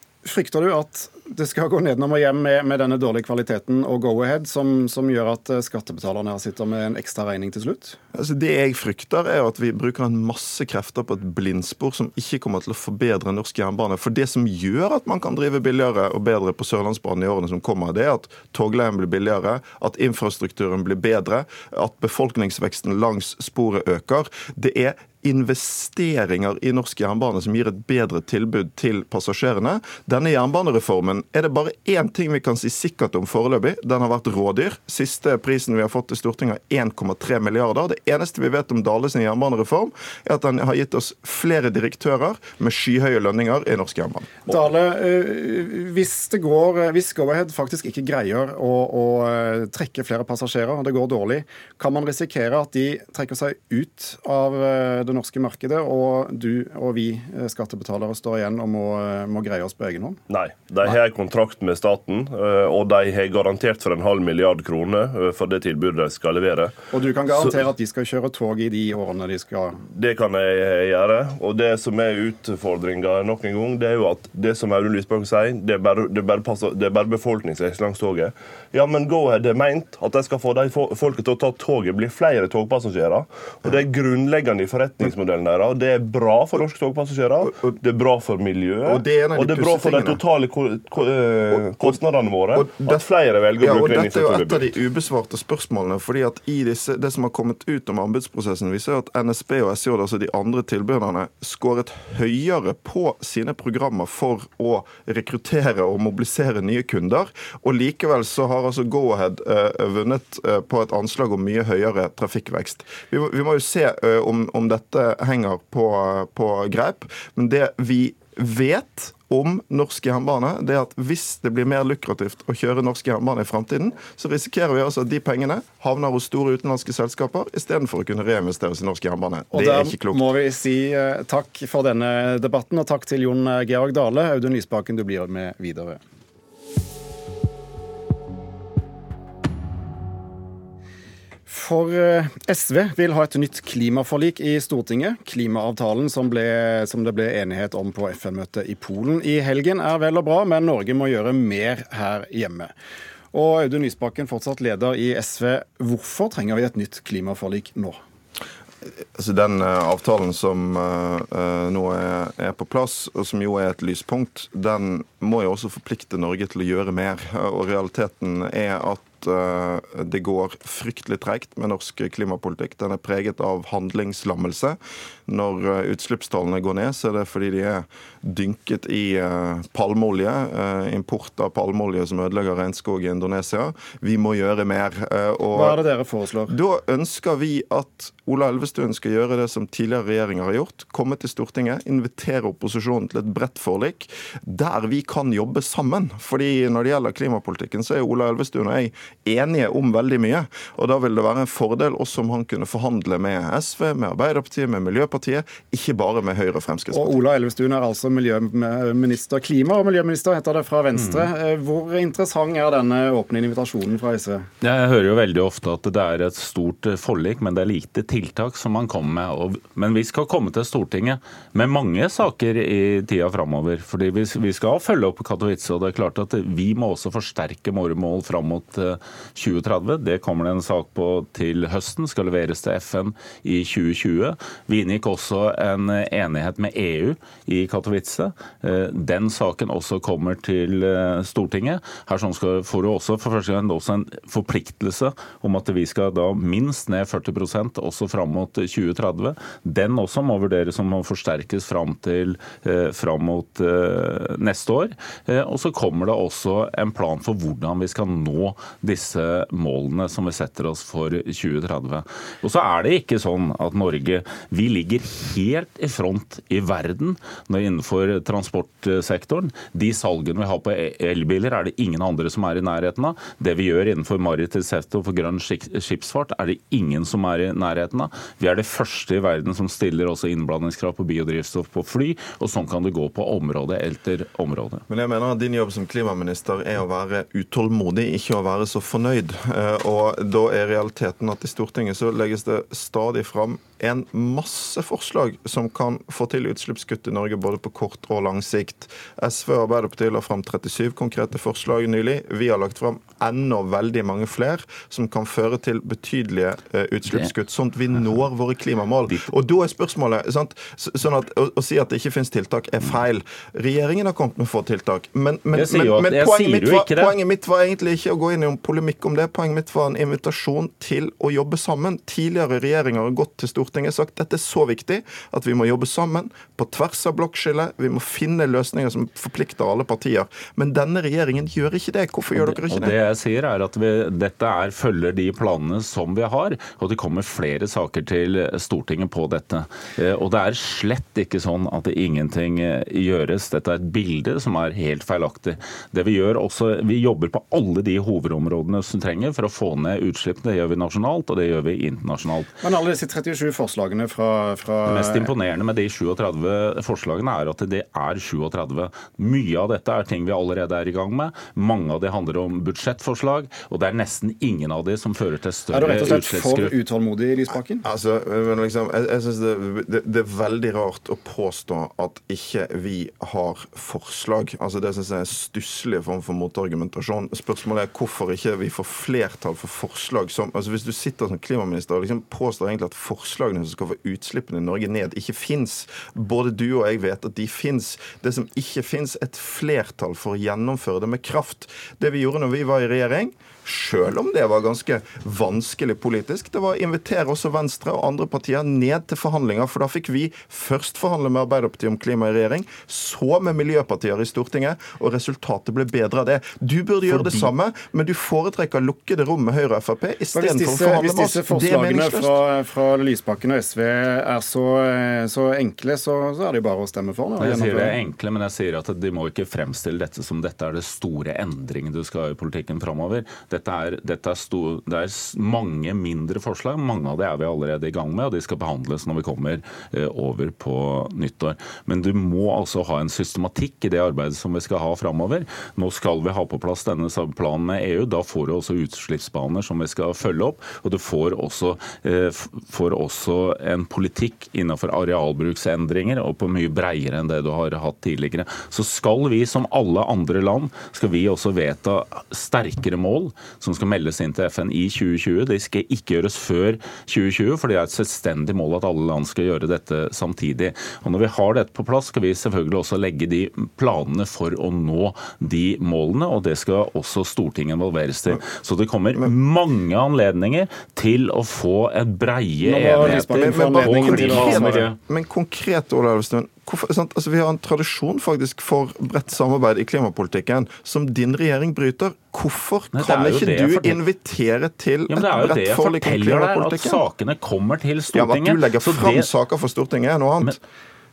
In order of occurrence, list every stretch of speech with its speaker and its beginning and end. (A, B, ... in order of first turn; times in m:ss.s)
0:00.2-0:08.0 A
0:08.1-0:44.5 B
0:44.5-1:00.2 A
1:00.3-1:06.7 C
1:06.9-1:09.8 A
1:09.9-1:34.8 C
1:28.8-1:30.2 B
1:31.7-1:32.0 B
1:32.5-1:33.0 B
1:33.6-2:10.2 B
2:09.5-2:16.0 A
2:21.5-2:32.7 A
2:33.3-2:38.0 A
2:39.2-3:05.8 B
3:05.5-3:06.5 A
3:06.5-3:27.2 B
3:26.9-3:34.5 A
3:31.0-3:31.3 D
3:34.6-4:44.8 D
4:44.9-5:33.0 B
5:15.5-5:17.2 D
5:32.3-5:52.6 D
5:52.6-5:55.3 A
5:54.8-6:06.8 D
6:05.7-6:07.8 A
6:07.8-6:52.4 B
6:47.1-6:47.5 D
6:50.3-6:58.0 A
6:57.4-7:55.0 D
7:52.6-7:54.9 A
7:53.0-8:07.0 B
8:02.9-8:04.0 D
8:05.1-8:09.3 D
8:08.1-8:10.6 B